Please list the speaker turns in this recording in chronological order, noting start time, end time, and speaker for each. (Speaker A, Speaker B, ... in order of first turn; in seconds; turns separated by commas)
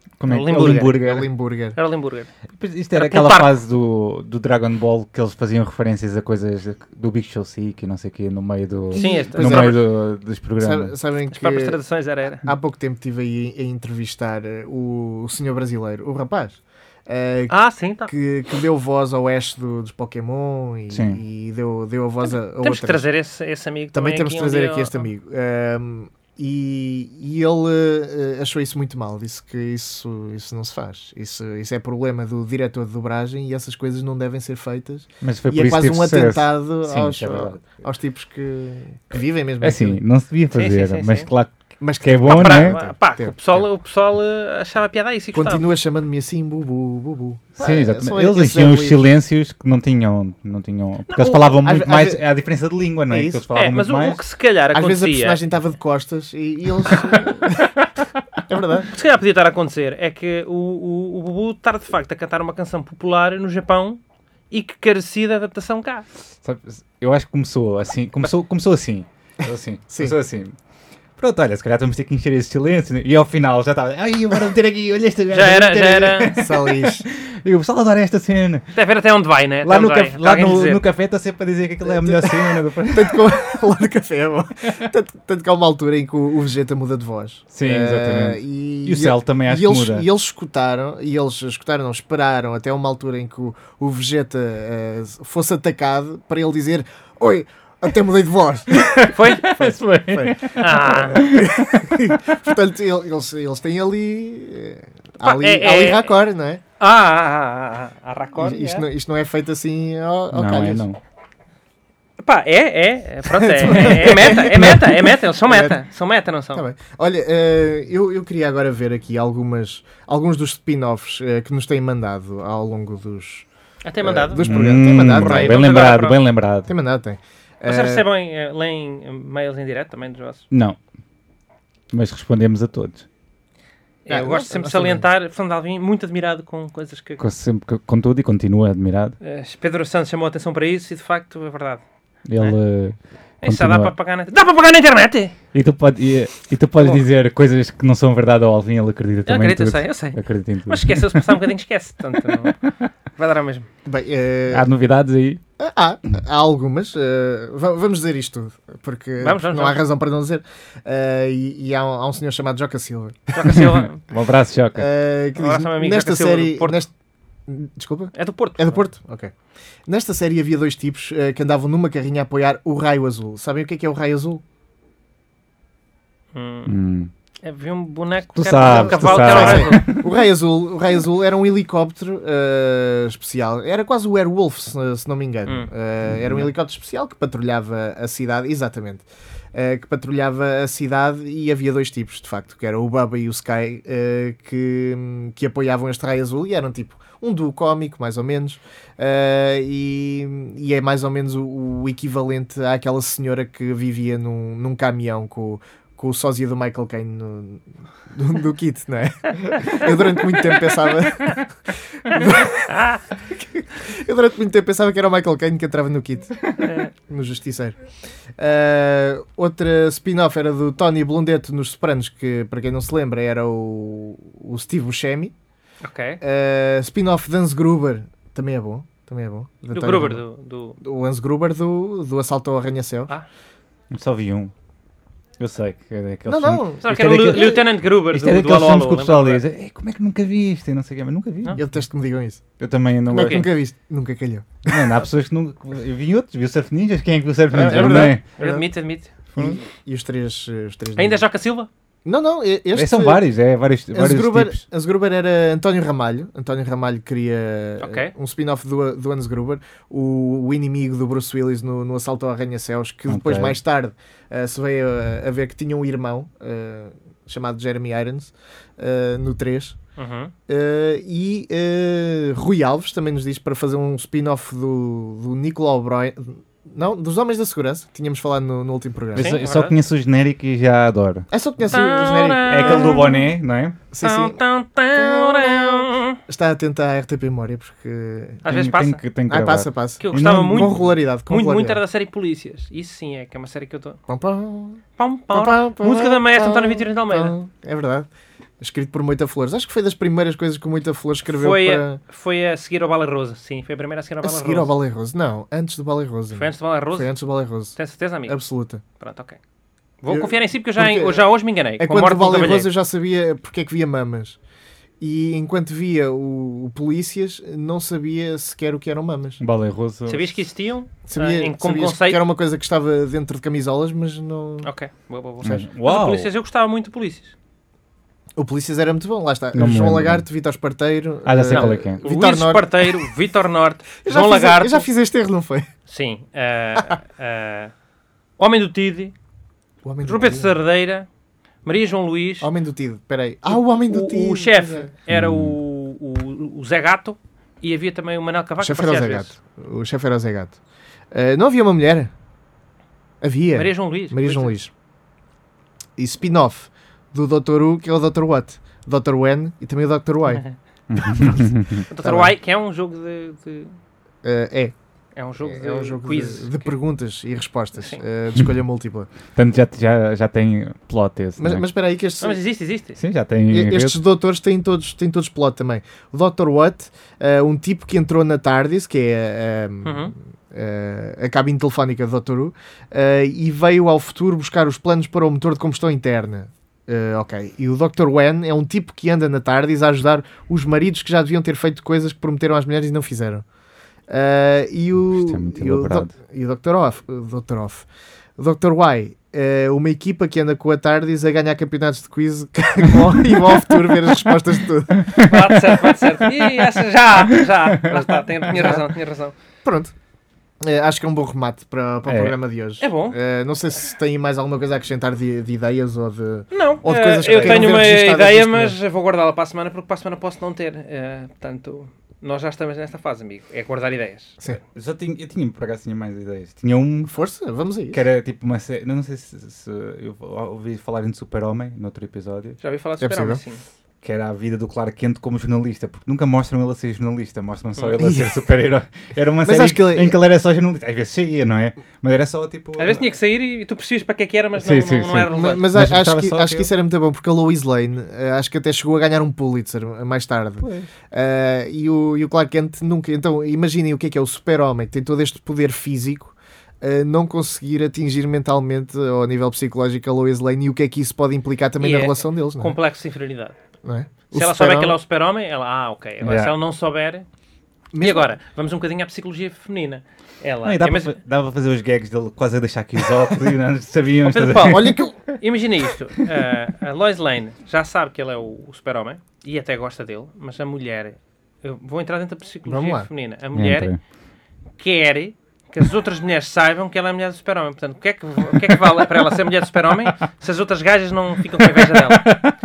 Speaker A: 0.2-1.3, Speaker B: 0.3-1.0, Speaker C: 0.5-1.8, Speaker B: 1.7-2.3, Speaker A: 2.5-10.9, Speaker B: 2.9-3.5, Speaker C: 8.9-9.8, Speaker B: 8.9-9.8, Speaker C: 10.6-11.8, Speaker B: 11.3-12.5, Speaker C: 12.4-17.5, Speaker B: 17.5-18.1, Speaker C: 18.1-23.0, Speaker A: 20.9-21.2, Speaker B: 22.3-25.0, Speaker C: 23.9-40.0, Speaker A: 35.2-37.8, Speaker A: 39.6-42.8, Speaker B: 40.5-41.3, Speaker C: 41.8-43.6, Speaker B: 42.3-45.6, Speaker C: 45.3-49.0, Speaker A: 47.6-54.2, Speaker B: 51.1-51.5, Speaker C: 51.6-52.2, Speaker C: 53.1-53.4, Speaker B: 53.5-55.4, Speaker C: 54.7-57.8, Speaker C: 58.5-58.9, Speaker B: 58.9-66.0, Speaker A: 66.4-70.5, Speaker C: 69.9-70.2, Speaker A: 71.2-78.7, Speaker B: 75.3-76.3, Speaker C: 76.3-77.0, Speaker B: 78.7-80.8, Speaker A: 79.6-83.2, Speaker C: 81.8-106.6, Speaker A: 87.5-90.1, Speaker A: 98.7-102.1, Speaker B: 99.1-99.5, Speaker B: 100.6-101.2, Speaker B: 105.2-106.1, Speaker B: 106.8-108.9, Speaker C: 108.4-110.8, Speaker A: 110.3-111.0, Speaker B: 112.2-116.6, Speaker C: 113.3-115.8, Speaker C: 116.5-123.5, Speaker B: 123.8-126.2, Speaker C: 124.0-125.6, Speaker A: 124.4-126.7, Speaker C: 126.7-128.1, Speaker B: 127.6-130.4, Speaker A: 130.5-130.8, Speaker A: 131.9-133.1, Speaker B: 134.0-137.2, Speaker C: 134.1-135.0, Speaker A: 137.2-139.2, Speaker B: 139.2-141.8, Speaker A: 142.2-143.9, Speaker B: 143.4-145.3, Speaker A: 145.5-151.5, Speaker B: 149.2-152.6, Speaker A: 152.4-152.7, Speaker B: 153.2-153.7, Speaker C: 153.8-154.7, Speaker A: 154.5-155.4, Speaker C: 155.6-163.6, Speaker B: 159.2-159.8, Speaker B: 163.3-164.0, Speaker A: 163.5-164.9, Speaker C: 164.8-166.9, Speaker B: 165.4-166.8, Speaker C: 167.5-169.3, Speaker B: 168.1-168.8, Speaker C: 169.9-174.4, Speaker B: 176.3-176.7, Speaker A: 176.7-177.1, Speaker B: 177.4-180.0, Speaker A: 178.3-180.1, Speaker C: 178.6-217.8, Speaker A: 186.1-186.5, Speaker B: 212.7-213.0, Speaker B: 216.6-216.9, Speaker C: 218.4-225.3, Speaker B: 225.8-226.2, Speaker C: 226.2-230.2, Speaker B: 229.7-230.8, Speaker C: 230.8-233.1, Speaker A: 233.9-234.5, Speaker A: 235.4-241.6, Speaker C: 236.3-236.8, Speaker B: 236.8-239.4, Speaker C: 241.6-242.4, Speaker A: 242.6-243.5, Speaker C: 243.1-244.9, Speaker A: 244.7-248.2, Speaker C: 247.5-248.7, Speaker B: 247.7-249.5, Speaker C: 249.3-251.2, Speaker B: 250.9-251.7, Speaker C: 252.0-253.2, Speaker A: 252.7-254.6, Speaker C: 253.9-269.8, Speaker B: 257.8-258.1, Speaker A: 263.1-263.6, Speaker B: 270.0-270.3, Speaker C: 270.5-279.4, Speaker A: 279.1-281.3, Speaker B: 279.2-279.7, Speaker C: 281.3-283.1, Speaker B: 281.7-283.3, Speaker A: 282.5-283.8, Speaker C: 283.9-284.4, Speaker B: 284.0-286.2, Speaker C: 284.9-288.4, Speaker B: 288.4-289.0, Speaker A: 288.4-290.9, Speaker C: 289.3-291.8, Speaker B: 290.0-294.0, Speaker C: 294.1-298.1, Speaker B: 295.0-297.3, Speaker C: 298.6-302.0, Speaker B: 301.3-304.7, Speaker C: 304.2-308.8, Speaker B: 306.3-307.1, Speaker B: 307.7-308.4, Speaker B: 309.0-309.4, Speaker B: 310.0-312.7, Speaker C: 310.1-314.4, Speaker C: 315.0-319.4, Speaker A: 319.4-320.4, Speaker B: 320.1-322.2, Speaker C: 321.1-324.7, Speaker B: 324.6-327.3, Speaker A: 325.4-326.3, Speaker C: 328.4-333.1, Speaker A: 329.5-330.2, Speaker A: 331.2-332.0, Speaker B: 331.5-334.9, Speaker C: 334.0-335.7, Speaker B: 335.9-337.7, Speaker B: 338.4-339.1, Speaker C: 339.8-340.5, Speaker B: 340.0-341.1, Speaker B: 341.6-342.5, Speaker C: 342.4-344.9, Speaker B: 343.5-349.3, Speaker A: 345.1-345.6, Speaker C: 348.6-350.6, Speaker C: 351.1-352.1, Speaker C: 353.2-354.7, Speaker B: 353.5-354.5, Speaker C: 356.0-360.4, Speaker A: 360.9-361.8, Speaker C: 361.1-361.4, Speaker B: 361.9-363.8, Speaker C: 362.0-362.3, Speaker C: 364.2-364.7, Speaker B: 365.1-366.7, Speaker C: 365.4-369.1, Speaker B: 367.8-368.0, Speaker A: 369.4-371.6, Speaker C: 371.4-372.4, Speaker B: 372.2-373.0, Speaker A: 373.0-374.0, Speaker C: 373.5-393.4, Speaker B: 379.8-380.1, Speaker C: 394.1-397.9, Speaker A: 395.0-396.1, Speaker C: 398.4-405.2, Speaker A: 405.0-405.4, Speaker B: 405.2-409.3, Speaker A: 407.3-408.2, Speaker C: 408.5-408.8, Speaker C: 409.6-409.9, Speaker C: 410.6-418.8, Speaker A: 412.1-412.4, Speaker B: 412.8-413.2, Speaker B: 416.5-424.6, Speaker A: 417.4-417.7, Speaker A: 424.7-427.1, Speaker C: 427.1-428.0, Speaker A: 427.9-432.6, Speaker B: 432.6-433.6, Speaker C: 433.0-433.4, Speaker A: 434.0-443.0, Speaker C: 438.0-438.4, Speaker C: 439.4-440.2, Speaker B: 442.8-445.7, Speaker A: 444.6-446.7, Speaker C: 445.3-462.8, Speaker A: 450.6-450.9, Speaker B: 461.8-463.6, Speaker C: 463.8-465.0, Speaker B: 464.3-467.3, Speaker A: 466.2-466.5, Speaker C: 467.9-468.3, Speaker B: 468.0-471.2, Speaker A: 470.6-475.0, Speaker B: 474.2-483.9, Speaker C: 474.7-475.1, Speaker C: 482.7-483.1, Speaker A: 483.5-484.0, Speaker B: 484.8-492.4, Speaker A: 491.6-492.5